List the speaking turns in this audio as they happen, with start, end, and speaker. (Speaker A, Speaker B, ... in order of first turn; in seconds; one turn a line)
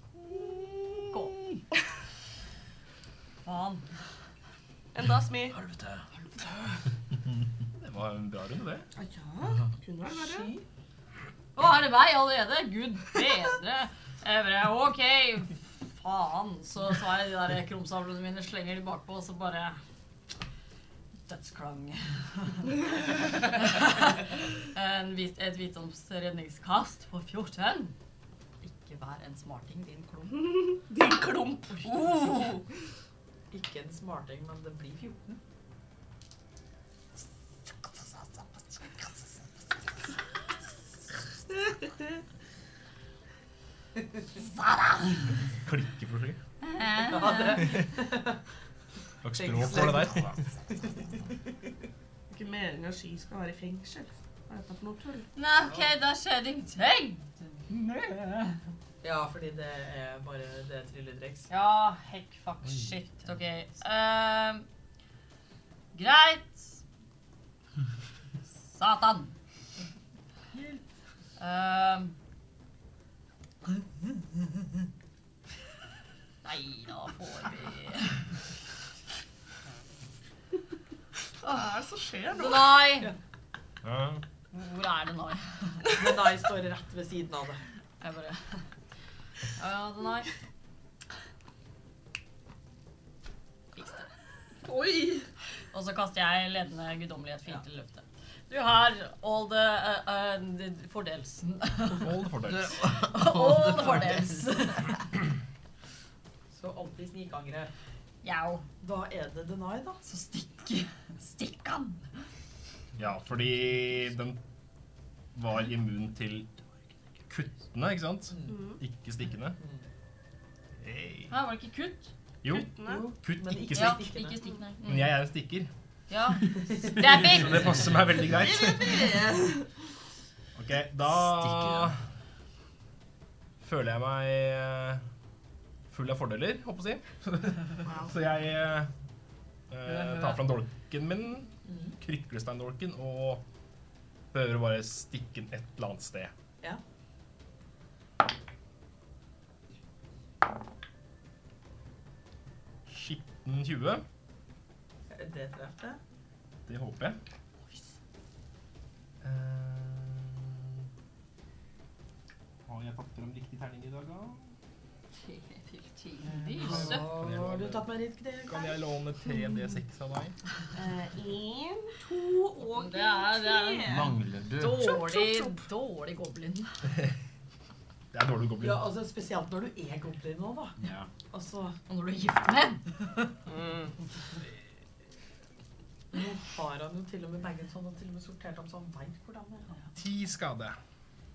Speaker A: 0.7-1.0
Speaker B: 1.1-1.6
Speaker B: 3.4-3.9
Speaker A: 4.9-5.6
Speaker C: 5.5-6.1
Speaker D: 7.7-8.9
Speaker A: 9.0-10.5
Speaker E: 10.1-10.7
Speaker B: 11.6-19.8
Speaker B: 21.2-22.8
Speaker B: 23.3-27.9
Speaker B: 28.6-30.3
Speaker A: 30.3-32.7
Speaker E: 33.5-35.4
Speaker B: 44.4-45.4
Speaker D: 45.6-46.4
Speaker B: 46.6-47.7
Speaker E: 47.1-48.4
Speaker D: 49.2-50.4
Speaker E: 49.4-51.5
Speaker A: 52.3-55.3
Speaker B: 55.4-58.5
Speaker E: 59.0-61.5
Speaker B: 61.5-64.7
Speaker B: 65.9-66.8
Speaker B: 68.6-69.3
Speaker B: 71.4-72.2
Speaker B: 76.4-78.4
Speaker A: 81.4-82.8
Speaker B: 82.3-83.1
Speaker D: 83.8-84.2
Speaker B: 84.5-85.9
Speaker E: 85.9-87.6
Speaker B: 88.0-88.7
Speaker B: 89.6-90.3
Speaker B: 93.8-94.1
Speaker A: 94.6-95.3
Speaker B: 95.7-102.2
Speaker D: 102.0-102.8
Speaker C: 102.5-104.7
Speaker B: 102.8-105.1
Speaker E: 106.5-107.7
Speaker B: 108.2-108.7
Speaker E: 108.8-110.0
Speaker B: 110.0-112.0
Speaker D: 113.0-114.4
Speaker D: 115.3-116.6
Speaker D: 117.3-119.6
Speaker E: 118.3-118.6
Speaker A: 118.5-118.8
Speaker E: 119.6-119.8
Speaker D: 120.8-121.3
Speaker B: 121.3-122.1
Speaker D: 122.4-124.0
Speaker A: 122.5-123.0
Speaker E: 122.8-124.4
Speaker B: 123.7-125.2
Speaker D: 124.8-125.7
Speaker B: 126.1-127.9
Speaker E: 126.5-127.3
Speaker D: 127.0-129.2
Speaker A: 128.2-129.8
Speaker D: 130.6-132.0
Speaker C: 131.1-131.9
Speaker D: 133.6-135.0
Speaker D: 135.9-138.9
Speaker A: 137.9-138.1
Speaker D: 139.7-143.4
Speaker B: 139.9-140.4
Speaker E: 141.7-142.0
Speaker D: 144.3-146.3
Speaker D: 152.9-154.0
Speaker E: 155.1-156.0
Speaker D: 156.7-157.2
Speaker D: 159.2-160.7
Speaker D: 162.7-164.5
Speaker B: 165.2-167.1
Speaker D: 166.3-167.9
Speaker E: 166.5-168.8
Speaker D: 168.5-170.4
Speaker A: 170.8-174.1
Speaker B: 172.6-176.8
Speaker C: 173.8-175.0
Speaker A: 174.8-175.6
Speaker D: 178.1-178.8
Speaker E: 178.6-180.8
Speaker C: 180.8-181.1
Speaker E: 181.3-181.8
Speaker B: 181.9-183.3
Speaker A: 183.5-183.9
Speaker E: 186.1-189.8
Speaker D: 189.9-190.8